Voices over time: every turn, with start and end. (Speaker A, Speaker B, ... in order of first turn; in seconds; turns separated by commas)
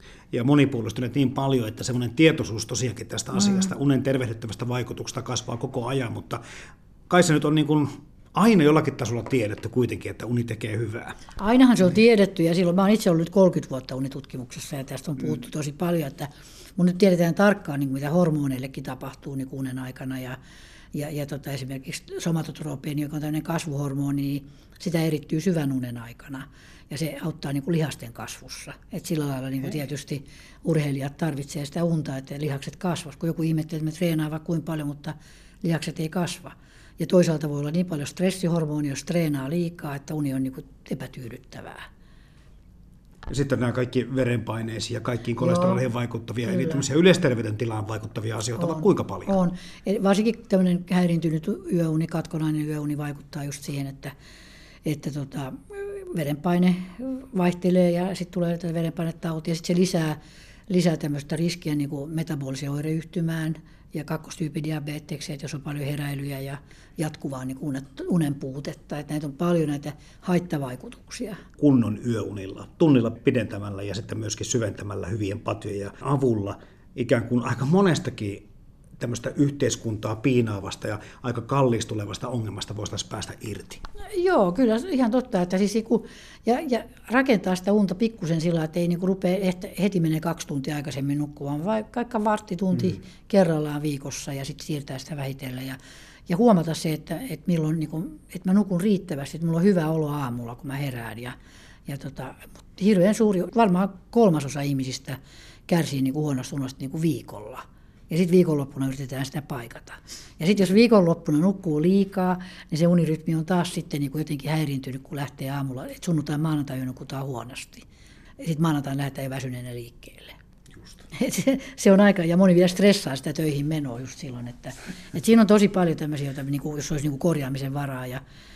Speaker A: 0.3-6.4, Speaker A: 7.1-11.2, Speaker B: 11.4-20.4, Speaker B: 20.9-41.9, Speaker A: 43.3-49.4, Speaker B: 45.4-45.8, Speaker B: 46.5-46.8, Speaker B: 48.6-54.1, Speaker B: 54.9-71.4, Speaker A: 71.6-78.5, Speaker A: 79.0-83.8, Speaker B: 84.1-101.4, Speaker B: 101.9-117.8, Speaker B: 118.4-120.4, Speaker B: 121.2-128.2